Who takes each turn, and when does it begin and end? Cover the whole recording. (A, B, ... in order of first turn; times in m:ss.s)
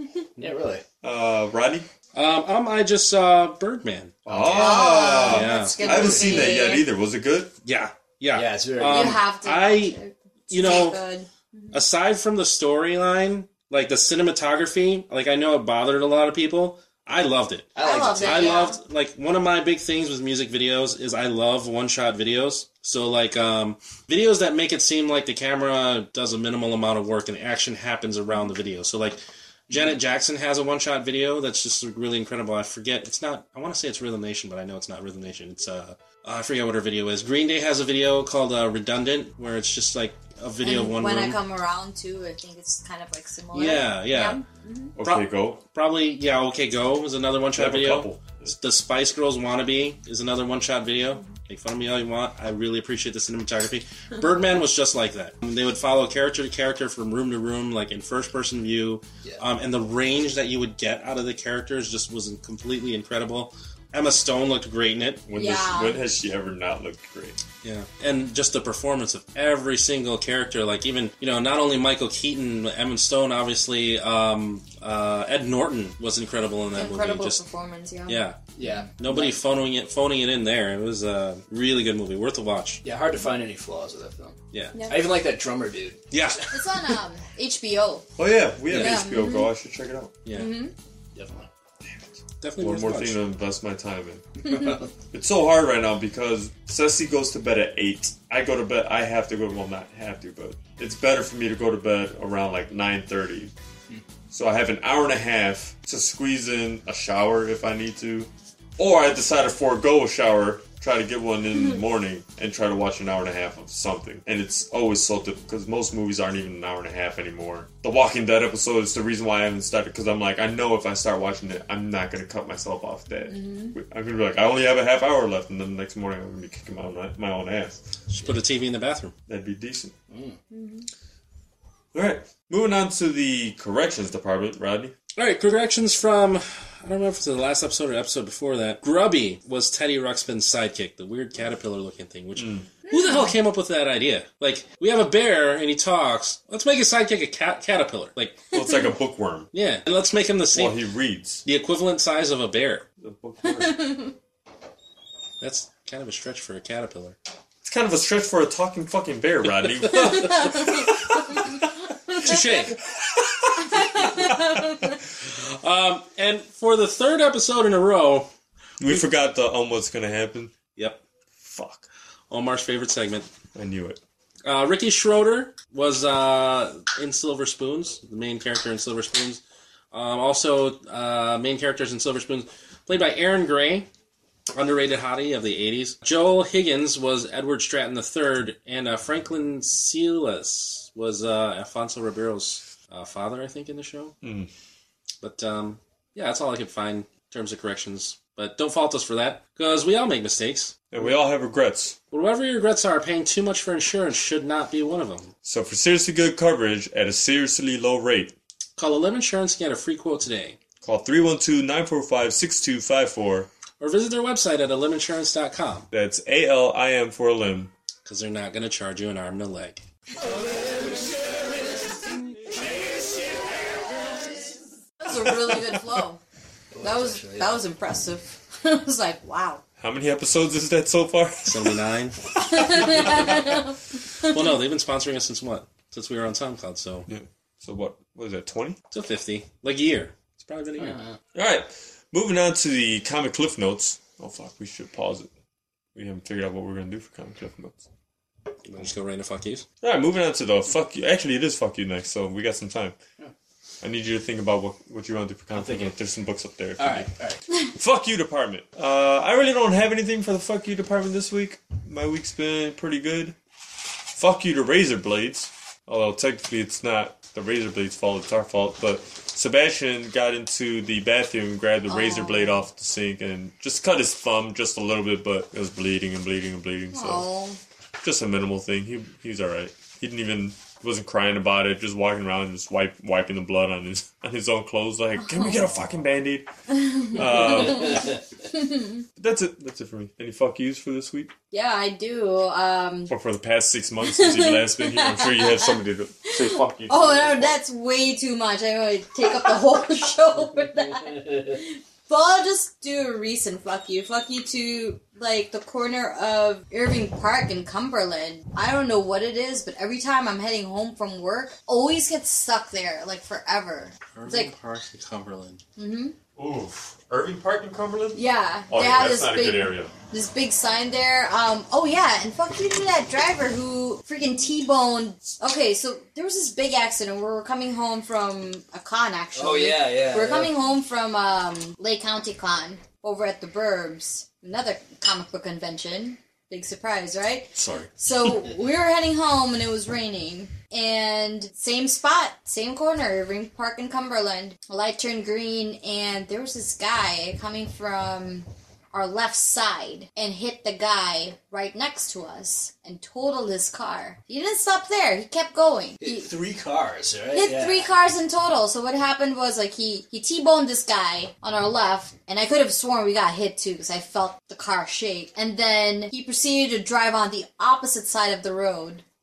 0:00.4-0:00.8 A
0:01.0-0:01.9 B
0:02.1-0:04.2 C
0:04.2-0:07.5 B
0:04.3-0:06.5 A
0:04.4-0:06.9 D
0:05.1-0:05.8 C
0:07.6-0:10.0 C
0:08.3-0:09.2 A
0:08.8-0:11.8 D
0:10.5-0:11.0 C
0:11.7-0:41.4 C
0:17.7-0:18.7 A
0:17.8-0:18.8 D
0:40.6-0:44.9 D
0:43.5-0:44.4 C
0:45.0-0:45.6 B
0:45.0-1:05.2 C
0:47.6-0:48.5 B
1:05.3-1:07.4 B
1:05.3-1:06.0 D
1:07.6-1:17.4 C
1:16.7-1:18.2 D
1:18.1-1:18.4 C
1:18.6-1:19.4 A
1:19.0-1:22.8 C
1:22.8-1:26.1 A
1:24.5-1:24.8 C
1:24.7-1:25.0 D
1:26.1-1:26.5 C
1:26.5-1:28.1 D
1:28.2-1:30.2 B
1:28.7-1:29.2 C
1:28.7-1:29.5 D
1:30.2-1:30.5 C
1:30.3-1:30.7 D
1:31.1-1:31.5 A
1:32.4-1:33.2 C
1:32.6-1:34.4 B
1:35.1-1:43.5 B
1:44.3-2:07.8 B
2:03.3-2:03.7 D
2:08.1-2:09.1 C
2:09.3-2:09.9 B
2:10.1-2:10.4 A
2:10.5-2:10.9 D
2:11.9-2:14.9 B
2:15.2-2:28.5 C
2:22.4-2:22.7 B
2:22.9-2:23.3 D
2:28.5-2:29.5 B
2:28.5-2:28.9 D
2:29.5-2:30.8 C
2:30.5-2:31.4 B
2:31.4-2:32.8 C
2:33.0-2:33.9 B
2:33.4-2:34.1 D
2:35.4-2:37.2 C
2:37.6-2:41.7 B
2:40.0-2:40.5 C
2:40.1-2:41.6 D
2:42.2-2:42.8 C
2:42.9-2:44.8 B
2:43.8-2:44.5 D
2:43.9-2:44.3 C
2:45.2-2:48.3 C
2:48.8-2:50.5 B
2:50.8-2:51.0 C
2:51.4-2:51.9 B
2:52.3-2:53.3 C
2:53.5-2:54.0 B
2:54.4-2:59.4 C
2:59.9-3:03.9 C
3:04.5-3:14.1 C
3:14.2-3:14.5 B
3:15.2-3:20.9 C
3:20.9-3:22.0 B
3:22.1-3:25.3 C
3:25.4-3:28.3 B
3:28.8-3:30.6 C
3:30.8-3:33.5 B
3:33.8-3:35.9 C
3:35.9-3:37.7 B
3:38.0-3:39.8 C
3:45.0-3:46.2 D
3:46.7-3:47.6 A
3:46.8-3:49.6 D
3:49.8-3:51.8 B
3:51.4-3:52.2 C
3:52.4-3:53.3 B
3:52.5-3:53.7 D
3:52.8-3:53.4 C
3:54.2-3:57.1 C
3:57.1-3:58.8 B
3:58.9-4:01.0 C
4:00.8-4:01.2 A
4:01.3-4:05.3 B
4:05.9-4:07.9 B
4:08.6-4:09.6 C
4:09.8-4:13.0 B
4:13.8-4:17.1 B
4:15.5-4:15.9 A
4:16.8-4:17.4 A
4:17.7-4:23.4 B
4:24.1-4:37.3 B
4:31.9-4:32.7 D
4:36.9-4:37.6 D
4:38.0-4:46.5 B
4:45.2-4:45.6 D
4:46.7-4:49.0 D
4:47.1-4:48.1 B
4:47.8-4:48.2 A
4:49.2-4:51.3 B
4:51.5-4:53.1 D
4:53.1-4:57.6 B
4:54.0-4:55.8 D
4:56.3-5:14.5 D
5:01.2-5:01.5 A
5:14.2-5:15.6 C
5:15.8-5:16.1 D
5:16.4-5:19.9 B
5:18.1-5:56.3 D
5:29.3-5:30.5 A
5:37.5-5:37.9 B
5:56.0-5:57.9 A
5:57.3-6:09.0 D